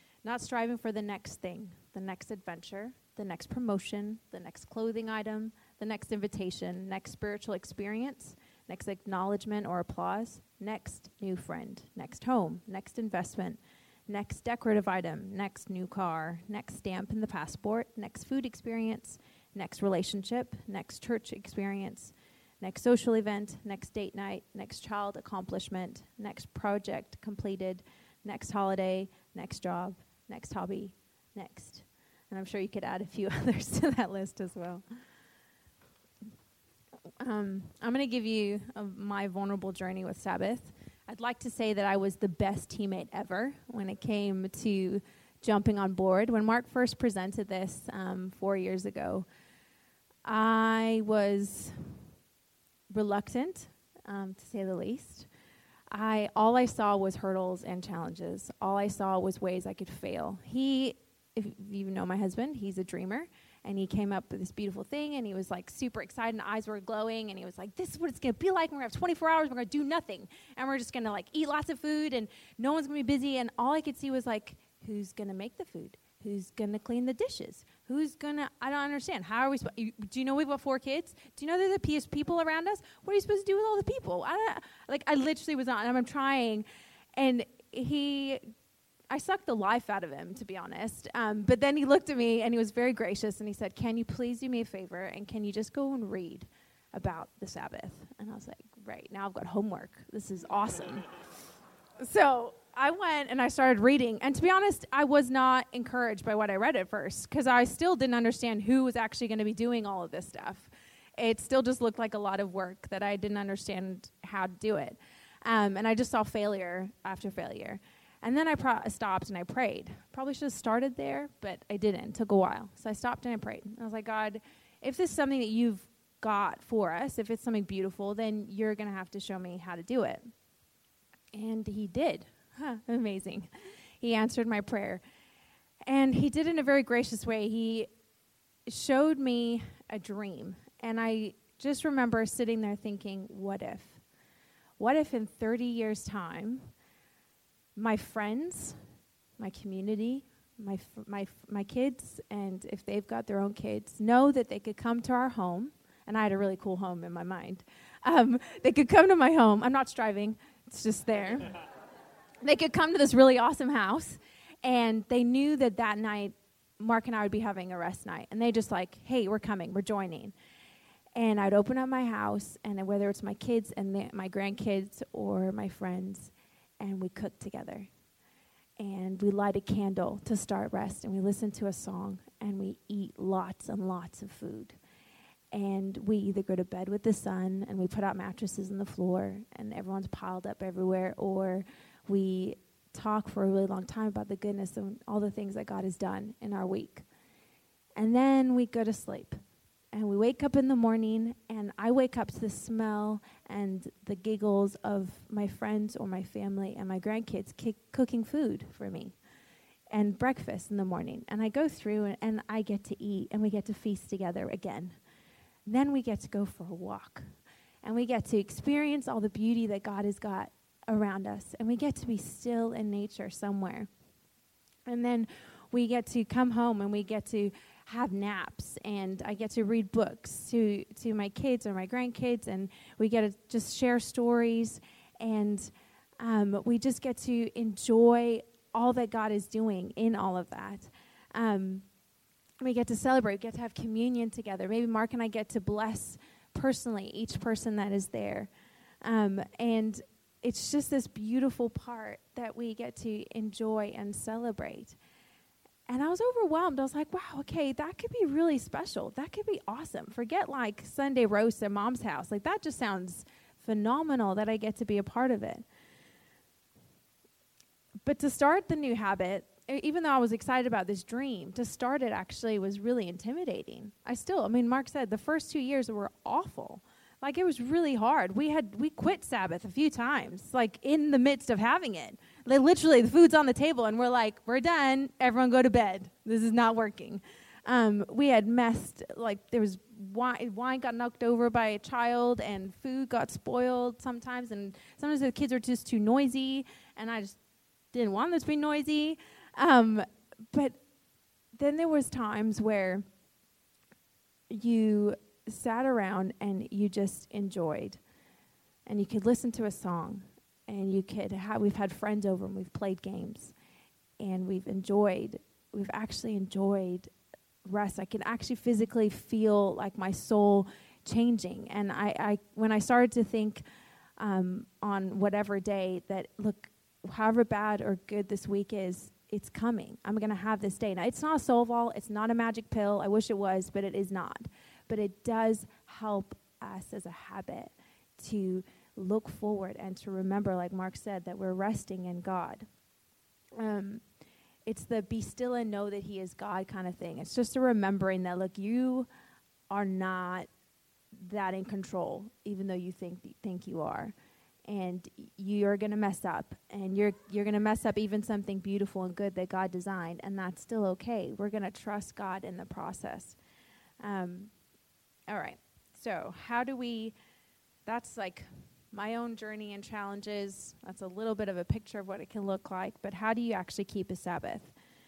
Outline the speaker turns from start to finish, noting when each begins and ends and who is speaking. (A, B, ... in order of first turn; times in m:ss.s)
0:00.2-0:34.8 A
0:37.2-0:49.2 A
0:50.2-0:52.0 A
0:52.9-0:55.3 A
0:55.9-1:26.6 A
1:27.2-1:28.4 A
1:29.1-1:41.1 A
1:42.0-2:10.2 A
2:11.3-2:13.5 A
2:14.0-2:15.0 A
2:15.9-2:17.9 A
2:18.7-2:24.0 A
2:24.8-2:26.7 A
2:27.8-2:28.8 A
2:29.4-2:41.6 A
2:42.4-2:50.3 A
2:51.2-2:57.9 A
2:58.8-3:04.8 A
3:05.5-3:17.0 A
3:18.0-3:19.4 A
3:19.9-3:29.2 A
3:29.9-3:35.0 A
3:35.7-3:37.2 A
3:37.8-3:43.9 A
3:44.9-4:01.8 A
4:02.6-4:08.5 A
4:09.0-4:15.0 A
4:15.9-4:25.6 A
4:28.0-4:57.4 A
4:57.9-5:00.8 A
5:01.6-5:03.0 A
5:04.5-5:08.0 A
5:08.8-5:13.5 A
5:14.2-5:17.1 A
5:17.6-5:23.6 A
5:24.2-5:42.6 A
5:43.6-5:44.0 A
5:44.7-5:49.1 A
5:49.7-5:50.5 A
5:51.1-5:54.1 A
5:54.7-6:03.4 A
6:04.0-6:04.5 A
6:05.3-6:07.1 A
6:07.8-6:14.7 A